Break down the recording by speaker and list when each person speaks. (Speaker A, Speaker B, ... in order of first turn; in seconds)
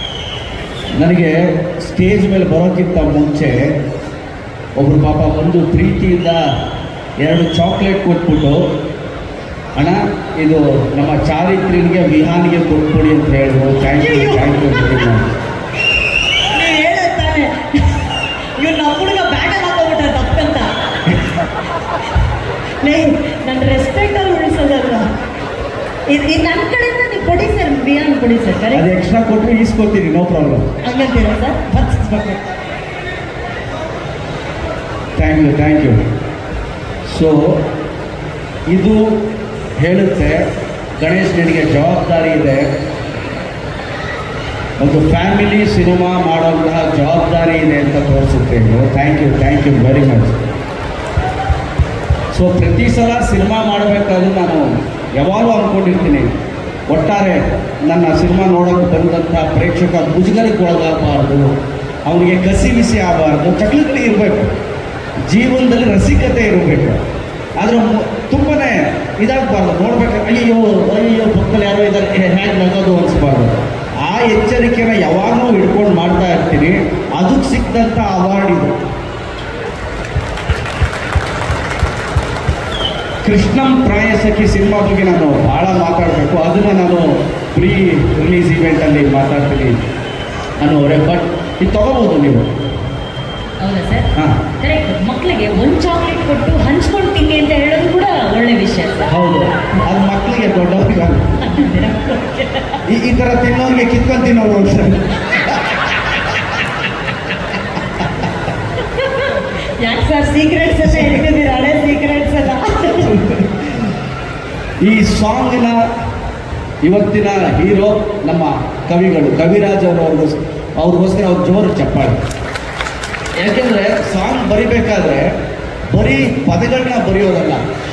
Speaker A: 1.0-3.7, 4.8-6.4, 7.2-8.6, 9.7-15.2, 28.7-30.7, 35.1-36.0, 37.0-37.7, 38.7-40.5, 41.0-42.7, 44.8-50.4, 52.3-56.3, 56.9-61.5, 62.0-64.5, 65.3-67.0, 67.6-78.8, 83.2-89.8, 90.6-92.5, 94.1-94.4, 99.1-101.3, 102.8-105.7, 113.1-113.6, 114.8-115.8, 116.8-122.2, 123.4-125.3, 125.9-127.6
Speaker B: 13.8-14.5, 16.5-21.2, 22.8-25.1, 26.1-28.8, 30.8-32.4, 93.6-99.1, 101.4-102.8, 108.9-113.3